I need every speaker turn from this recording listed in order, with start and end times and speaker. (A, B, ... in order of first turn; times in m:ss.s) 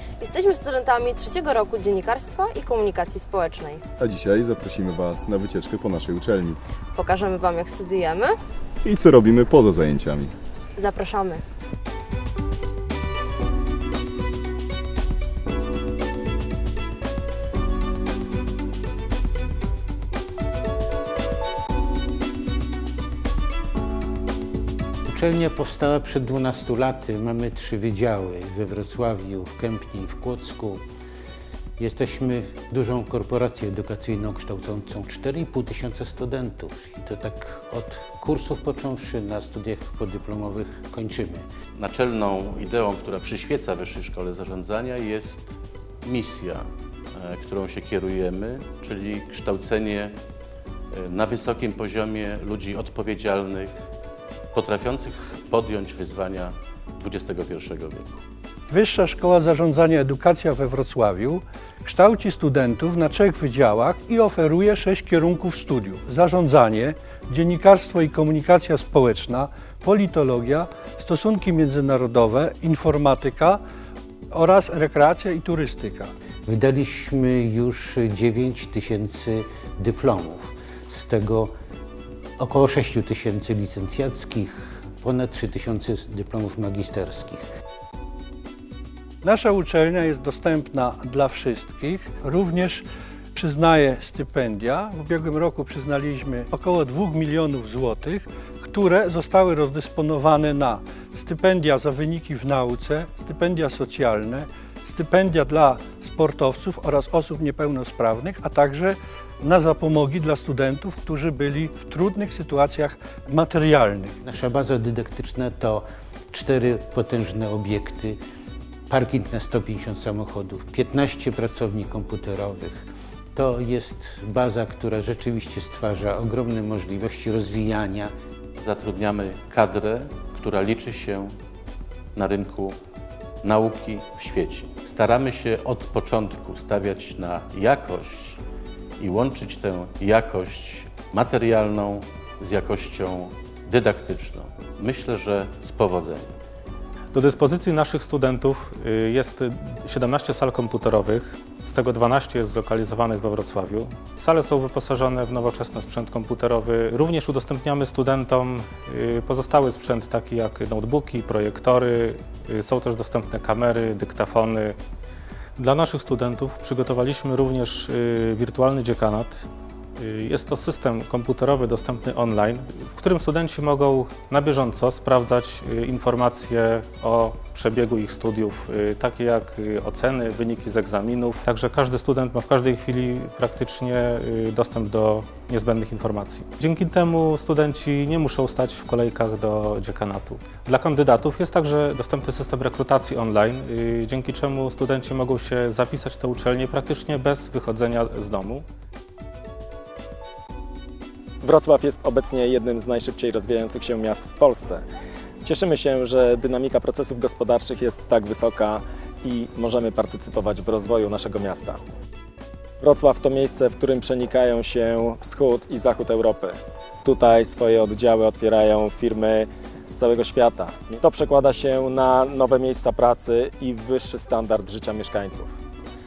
0:00.2-0:03.8 A
0:04.0-0:06.6 B
0:06.9-0:08.4 A
0:08.8-0:10.3 B
0:10.8-0:11.4 A
0:25.1-0:30.8 C
0:31.8-0:41.5 C
0:41.8-0:50.2 D
0:50.9-0:53.8 D
0:54.5-0:58.2 D
0:58.7-1:13.6 E
1:14.3-1:16.1 E
1:16.5-1:21.5 C
1:22.4-1:27.5 C
1:29.2-1:32.8 E
1:33.4-1:54.2 E
1:54.2-1:58.2 C
1:58.9-2:08.1 C
2:08.6-2:11.3 D
2:12.2-2:12.8 D
2:13.4-2:18.4 D
2:19.0-2:26.4 D
2:27.1-2:44.8 F
2:45.6-3:18.6 F
3:21.4-3:24.8 G
3:25.4-3:31.8 G
3:32.8-3:45.5 G